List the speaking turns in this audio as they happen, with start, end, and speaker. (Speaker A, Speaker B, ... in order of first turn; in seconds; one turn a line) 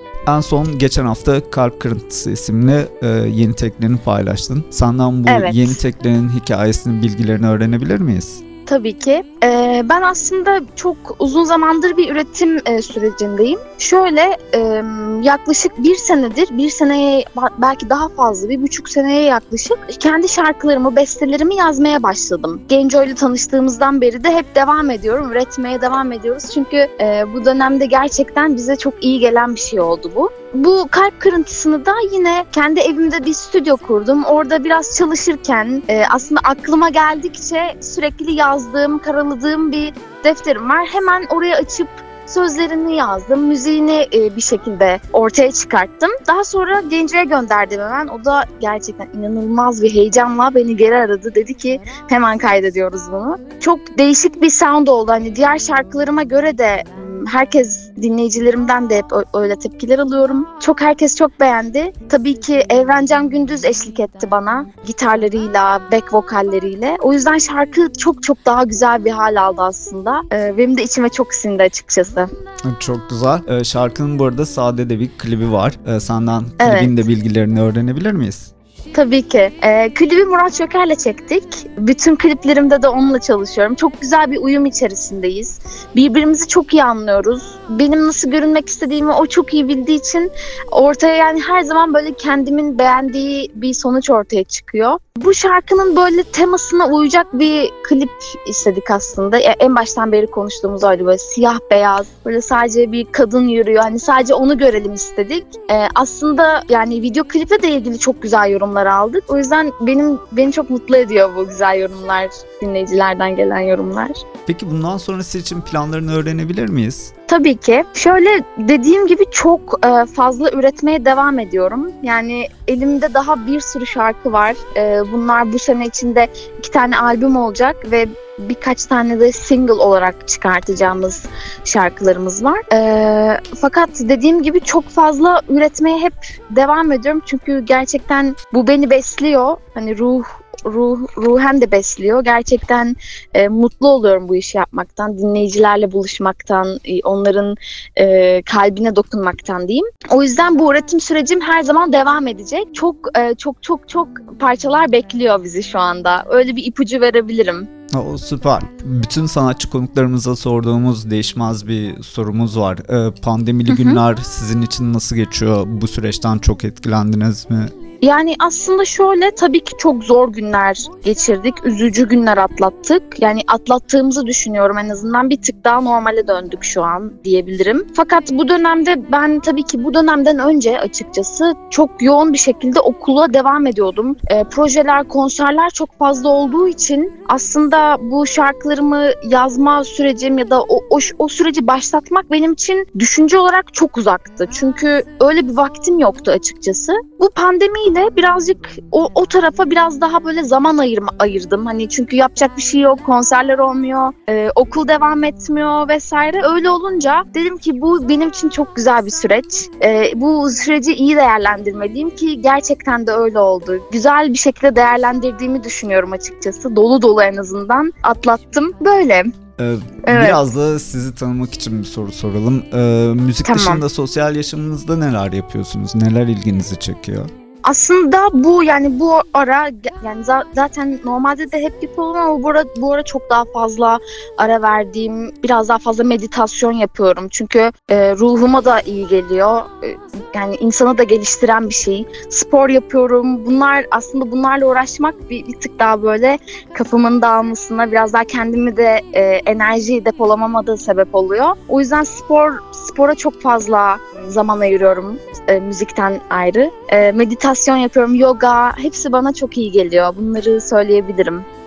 Speaker A: 0.3-8.4
Speaker B: 5.3-5.8
Speaker B: 8.7-72.3
Speaker A: 72.7-78.5
Speaker B: 76.6-77.0
Speaker B: 78.9-114.2
Speaker A: 114.5-117.1
Speaker B: 117.3-157.7
Speaker A: 157.9-167.7
Speaker B: 163.7-164.0
Speaker B: 168.0-219.3
Speaker A: 219.6-227.3
Speaker B: 220.1-220.4
Speaker B: 223.4-223.8
Speaker B: 227.6-261.4